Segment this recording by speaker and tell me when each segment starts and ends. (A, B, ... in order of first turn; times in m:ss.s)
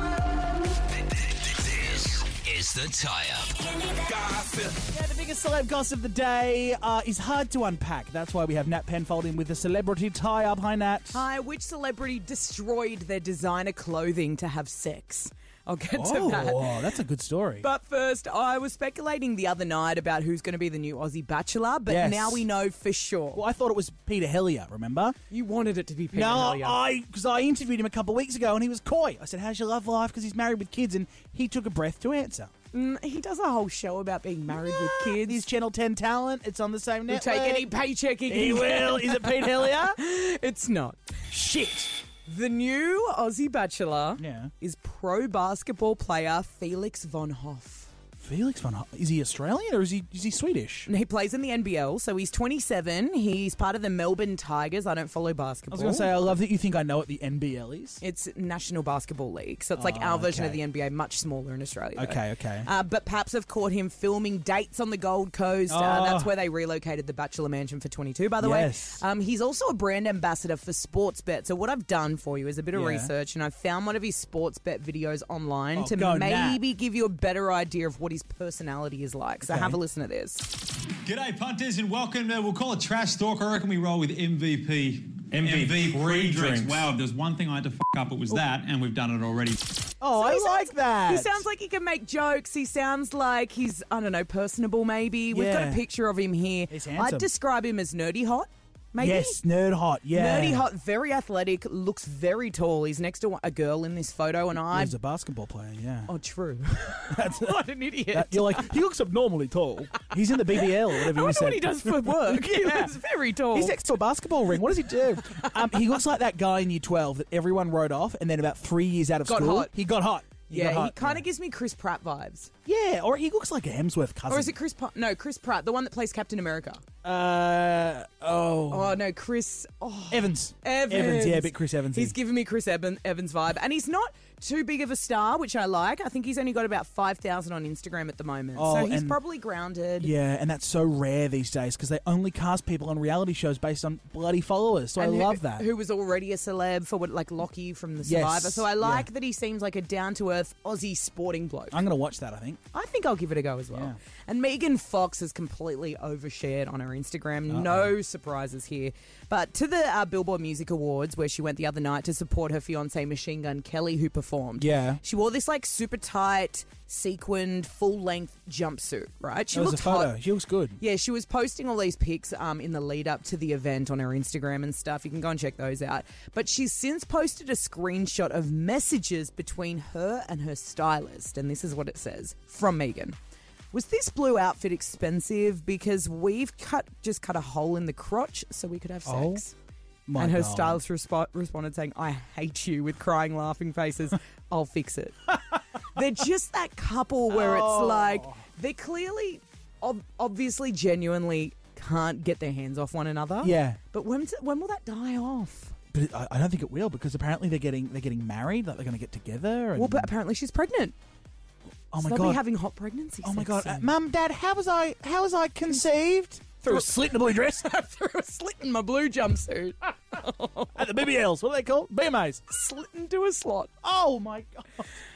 0:01.5-0:04.3 A
0:04.7-0:11.2 B
0:11.1-0:16.8 C
0:15.9-0:17.6 B
0:17.6-0:23.4 C
0:21.9-0:22.4 B
0:23.3-0:25.2 B
0:25.3-0:26.8 C
0:26.1-0:32.5 B
0:32.7-0:35.5 C
0:34.5-0:37.7 B
0:37.1-0:47.9 C
0:38.3-0:40.0 B
0:44.2-0:44.5 B
0:48.2-0:50.9 B
0:50.9-0:56.4 C
0:55.7-0:58.0 B
0:58.0-1:20.5 C
0:59.8-1:00.6 B
1:01.9-1:02.7 B
1:05.7-1:06.3 B
1:08.4-1:09.0 B
1:12.7-1:13.1 B
1:15.7-1:16.6 B
1:19.4-1:19.8 B
1:21.0-1:29.6 D
1:25.4-1:26.8 A
1:30.0-1:31.4 B
1:30.0-1:39.4 C
1:35.3-1:35.8 B
1:36.7-1:37.3 B
1:39.0-1:40.7 B
1:40.1-1:45.0 C
1:44.6-1:46.1 B
1:46.1-1:48.7 C
1:47.1-1:53.0 B
1:50.0-1:53.8 C
1:53.5-2:01.2 B
1:54.5-1:55.9 C
1:59.2-1:59.7 C
2:00.5-2:02.5 C
2:02.6-2:04.5 B
2:04.3-2:06.8 C
2:07.0-2:09.0 B
2:08.7-2:20.1 C
2:10.1-2:12.1 B
2:18.5-2:19.2 B
2:20.0-2:25.7 B
2:25.0-2:31.8 C
2:28.0-2:29.1 B
2:31.7-2:32.6 B
2:32.7-2:50.2 C
2:33.7-2:34.0 B
2:37.5-2:37.9 B
2:44.6-2:45.0 B
2:49.5-2:50.8 B
2:50.8-3:03.2 C
3:03.7-3:09.5 C
3:09.0-3:09.4 B
3:10.1-3:10.8 B
3:10.2-3:25.8 C
3:17.3-3:18.4 B
3:23.4-3:23.8 B
3:25.9-3:30.1 B
3:29.8-3:30.9 C
3:31.9-3:32.4 B
3:32.0-3:33.9 C
3:33.2-3:37.7 B
3:36.6-3:40.9 C
3:40.7-3:42.4 B
3:42.5-3:43.7 C
3:43.8-3:44.9 B